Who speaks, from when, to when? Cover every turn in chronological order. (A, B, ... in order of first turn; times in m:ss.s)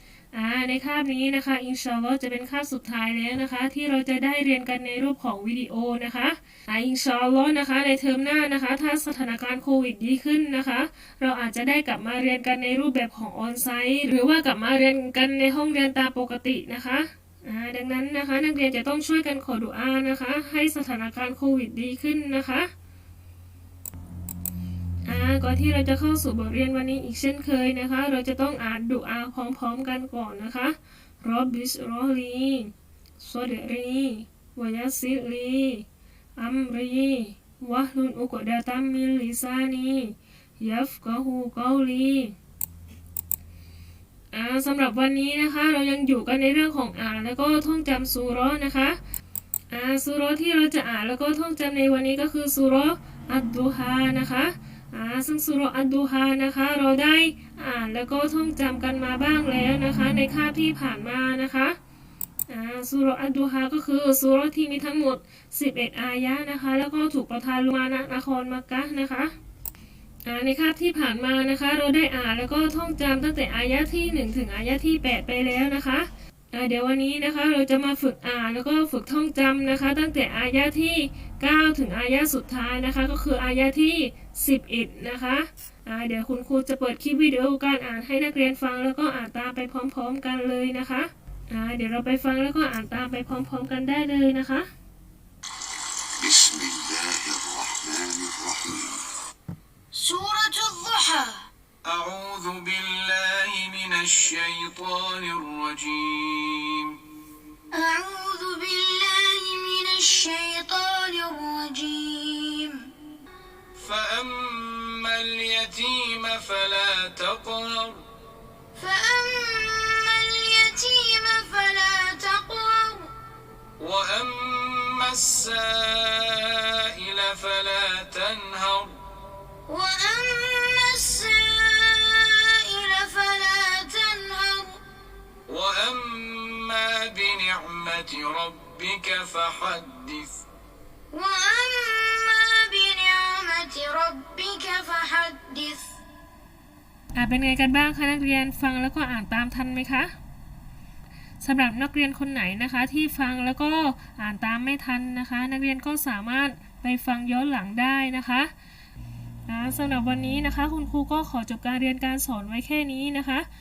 0:00.3-0:22.7 A
0:25.1-0:35.8 A
0:36.4-0:42.3 A
0:44.3-0:49.0 A
0:49.7-1:01.7 A
1:02.5-1:09.3 A
1:10.2-1:34.7 A
1:36.3-1:38.6 B
1:39.9-1:41.5 C
1:41.8-1:47.0 D
1:47.7-1:52.9 C
1:53.8-1:58.0 D
1:58.8-2:03.1 C
2:03.8-2:09.0 D
2:09.7-2:14.8 C
2:15.5-2:20.3 D
2:21.1-2:25.9 C
2:27.2-2:30.1 A
2:31.4-2:38.5 A
2:39.5-2:43.5 A